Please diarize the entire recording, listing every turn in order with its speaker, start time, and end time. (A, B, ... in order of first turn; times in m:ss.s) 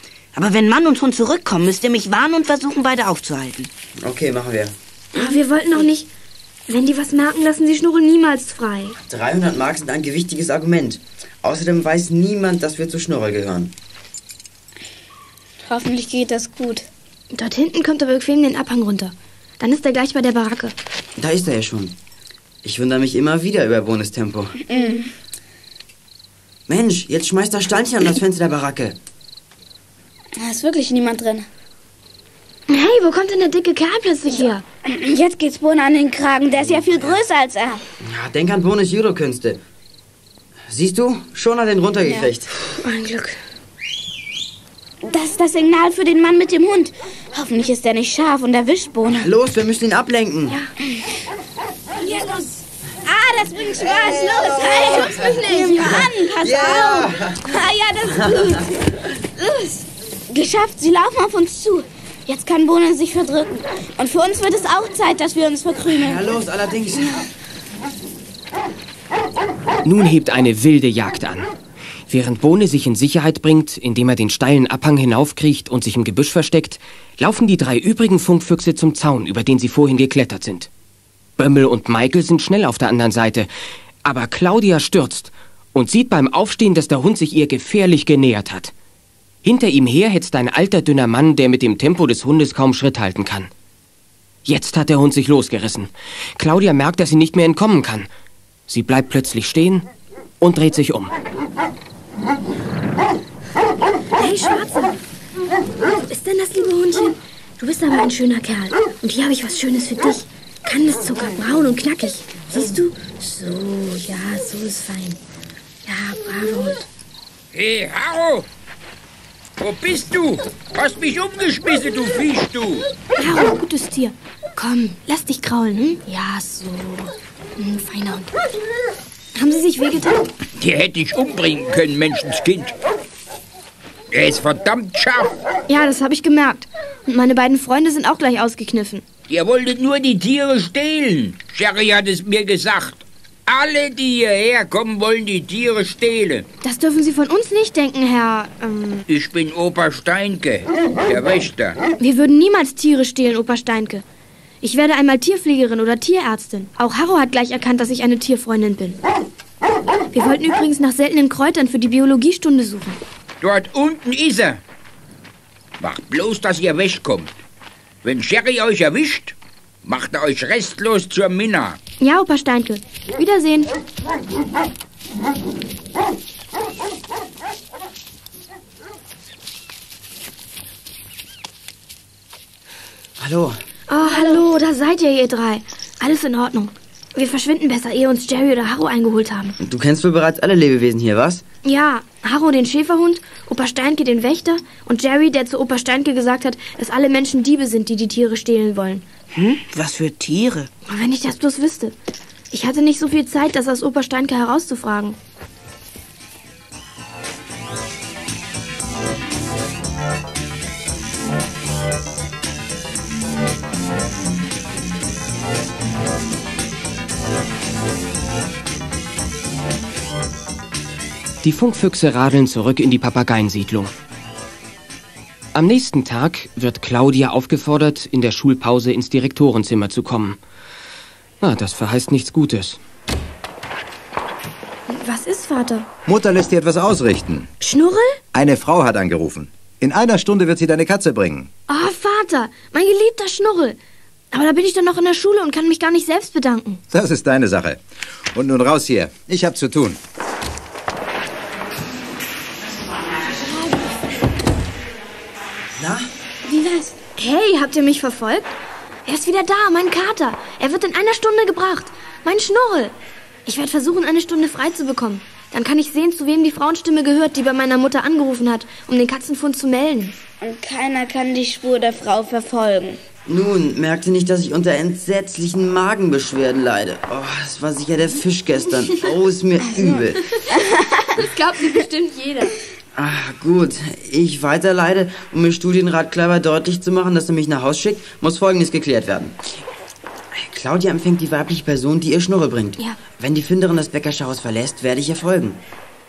0:00.4-0:03.7 A
0:04.0-0:04.8 B
0:05.1-0:06.1 C
0:06.7-0:09.0 C
0:09.1-0:13.7 B
0:15.7-0:16.9 D
0:17.3-0:20.8 C
0:21.2-0:22.0 B
0:22.6-0:24.6 B
0:24.7-0:25.1 D
0:26.7-0:29.0 B
0:30.4-0:31.5 D
0:32.7-0:34.6 C
0:34.8-0:37.8 D
0:38.0-0:39.6 B
0:40.7-0:42.5 B
0:42.0-0:42.3 D
0:42.8-0:43.4 C
0:45.0-0:49.3 D
0:49.2-0:50.6 B
0:53.0-0:58.7 D
0:53.8-0:58.6 B
0:54.8-0:56.1 C
0:59.4-0:59.8 C
1:00.3-1:06.2 D
1:05.9-1:07.2 B
1:09.8-1:11.5 E
1:12.1-1:20.7 E
1:21.4-1:23.5 E
1:24.0-1:28.7 E
1:29.4-1:33.5 E
1:34.4-1:38.1 E
1:38.7-1:39.9 E
1:40.4-1:41.1 E
1:44.2-1:45.0 C
1:46.1-1:55.2 C
1:55.9-1:56.9 C
1:57.5-1:58.5 F
1:59.6-2:02.9 F
2:03.2-2:08.4 C
2:09.4-2:10.3 C
2:10.6-2:12.8 F
2:14.1-2:15.4 F
2:15.7-2:19.1 C
2:19.3-2:26.5 F
2:26.6-2:29.0 C
2:29.1-2:31.8 F
2:32.0-2:34.0 C
2:34.6-2:39.0 C
2:40.1-2:43.0 C
2:43.4-2:44.6 F
2:45.8-2:47.3 F
2:48.0-2:51.8 F
2:52.0-2:53.7 C
3:03.2-3:03.6 B
3:03.9-3:09.6 C
3:09.6-3:11.4 B
3:11.6-3:19.0 C
3:19.3-3:20.7 A
3:20.9-3:22.0 C
3:22.5-3:25.2 C
3:41.4-3:43.9 E
3:45.5-3:50.4 E
3:51.4-3:52.8 E
3:54.9-3:55.9 C
3:56.1-3:57.5 G
3:57.6-3:58.2 C
3:58.3-4:01.5 G
4:01.7-4:03.8 C
4:04.3-4:06.8 C
4:06.9-4:07.8 G
4:08.3-4:10.0 G
4:13.4-4:14.0 C
4:15.8-4:16.1 B
4:16.5-4:18.5 C
4:19.1-4:22.9 C
4:23.5-4:30.2 C
4:30.4-4:33.0 D
4:33.3-4:40.3 B
4:41.2-4:42.6 C
4:43.0-4:49.4 B
4:50.4-4:55.6 B